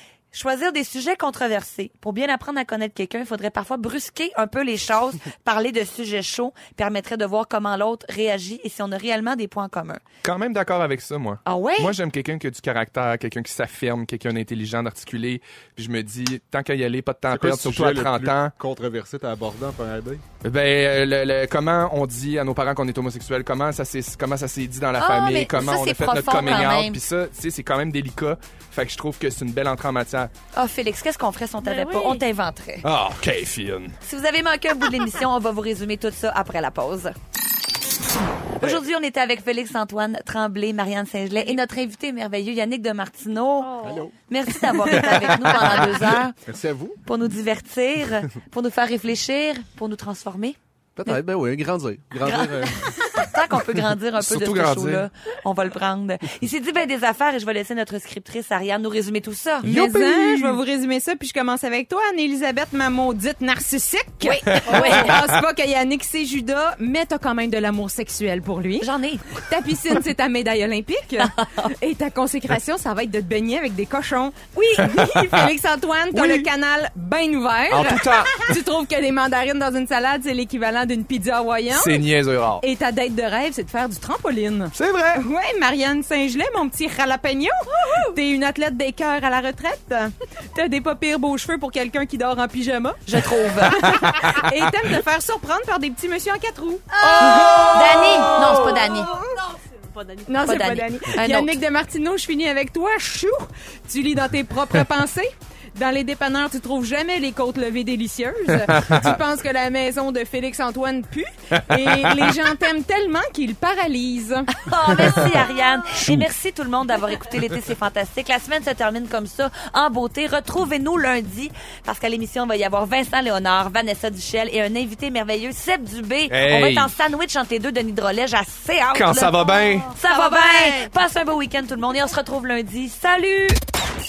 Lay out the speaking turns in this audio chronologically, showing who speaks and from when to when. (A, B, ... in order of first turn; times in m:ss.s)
0:00.3-0:10.0 A
0:10.2-0:18.5 B
0:11.4-0:12.0 A
0:17.3-0:20.2 C
0:20.4-0:30.3 B
0:25.0-0:27.0 A
0:30.5-0:32.9 A
0:31.6-0:32.2 D
0:32.8-0:34.0 B
0:34.0-0:37.2 A
0:38.6-0:46.4 A
0:43.6-0:44.1 D
0:43.8-0:44.1 C
0:44.6-0:45.6 D
0:46.5-0:47.0 C
0:47.0-0:50.6 A
0:51.0-0:53.0 C
0:52.2-0:59.8 A
0:54.2-0:55.1 B
0:59.6-1:00.6 B
0:59.6-1:22.0 E
1:04.2-1:05.1 A
1:04.5-1:05.2 B
1:04.7-1:05.1 D
1:08.8-1:09.4 A
1:14.9-1:15.5 B
1:16.2-1:16.4 B
1:17.7-1:18.6 B
1:21.7-1:22.6 B
1:22.6-1:33.0 E
1:24.7-1:25.2 B
1:27.8-1:28.2 D
1:33.1-1:34.0 A
1:33.8-1:38.9 E
1:33.8-1:34.4 B
1:36.9-1:41.0 D
1:37.7-1:39.1 A
1:40.3-1:54.5 E
1:40.4-1:41.5 A
1:48.7-1:49.2 B
1:51.6-1:52.3 B
1:54.5-2:09.4 A
1:55.0-1:55.3 B
1:56.0-1:56.3 B
2:06.3-2:06.9 B
2:08.9-2:10.0 B
2:09.4-2:10.9 D
2:10.0-2:13.6 A